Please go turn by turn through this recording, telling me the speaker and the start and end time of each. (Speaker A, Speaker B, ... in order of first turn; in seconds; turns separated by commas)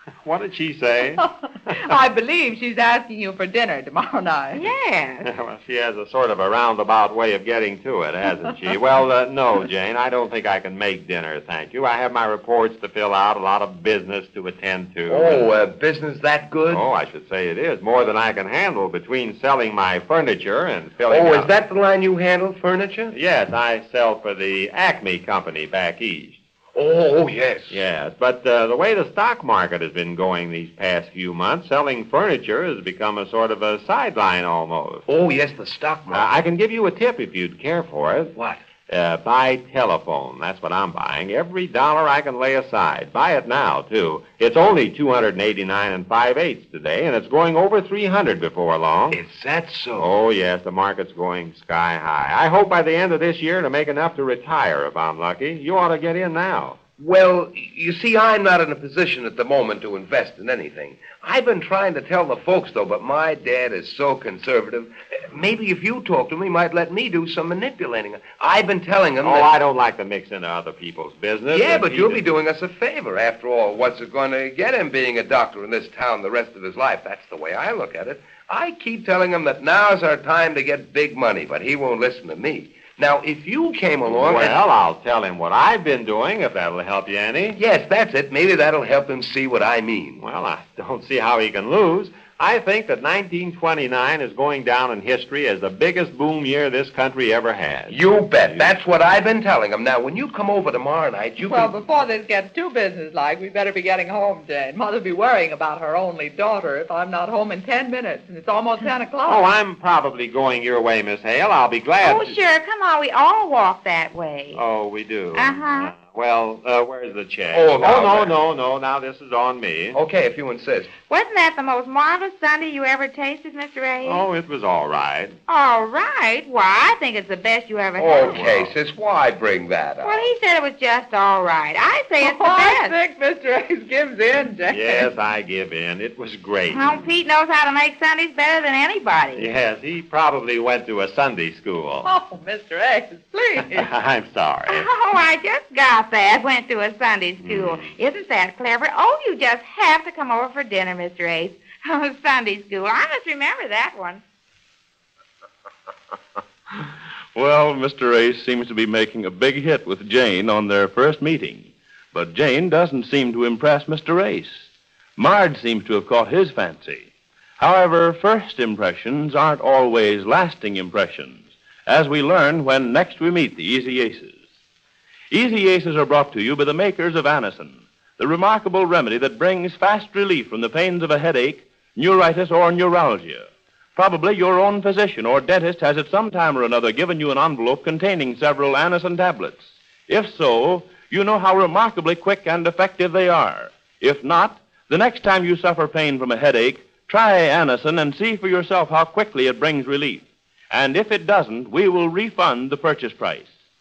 Speaker A: 0.2-1.9, Speaker B: 1.2-4.7, Speaker C: 4.5-5.3, Speaker A: 5.2-15.5, Speaker D: 15.1-16.9, Speaker A: 16.7-21.5, Speaker D: 21.1-23.1, Speaker A: 23.1-26.4, Speaker D: 26.8-27.8, Speaker A: 27.7-35.0, Speaker D: 35.1-36.3, Speaker A: 36.1-38.3, Speaker D: 38.4-38.6, Speaker A: 38.9-49.2, Speaker D: 49.1-50.1, Speaker A: 50.0-56.8, Speaker D: 57.0-69.5, Speaker A: 69.2-72.2, Speaker D: 71.5-84.6, Speaker A: 84.1-87.6, Speaker D: 87.5-90.2, Speaker A: 90.2-98.8, Speaker D: 97.9-101.8, Speaker B: 101.4-109.4, Speaker A: 109.3-112.4, Speaker C: 112.0-114.6, Speaker A: 114.5-120.0, Speaker C: 115.3-116.0, Speaker D: 117.5-118.4, Speaker D: 119.9-120.9, Speaker C: 121.1-124.3, Speaker A: 124.0-125.4, Speaker C: 125.5-128.6, Speaker D: 128.0-130.3, Speaker A: 128.2-128.7, Speaker C: 130.0-133.0, Speaker B: 132.2-135.1, Speaker A: 134.7-137.1, Speaker C: 136.7-139.5, Speaker A: 139.3-142.1, Speaker B: 142.0-143.9, Speaker A: 143.6-144.9, Speaker C: 144.7-154.2, Speaker A: 147.4-147.9, Speaker E: 157.3-174.4, Speaker E: 175.3-203.5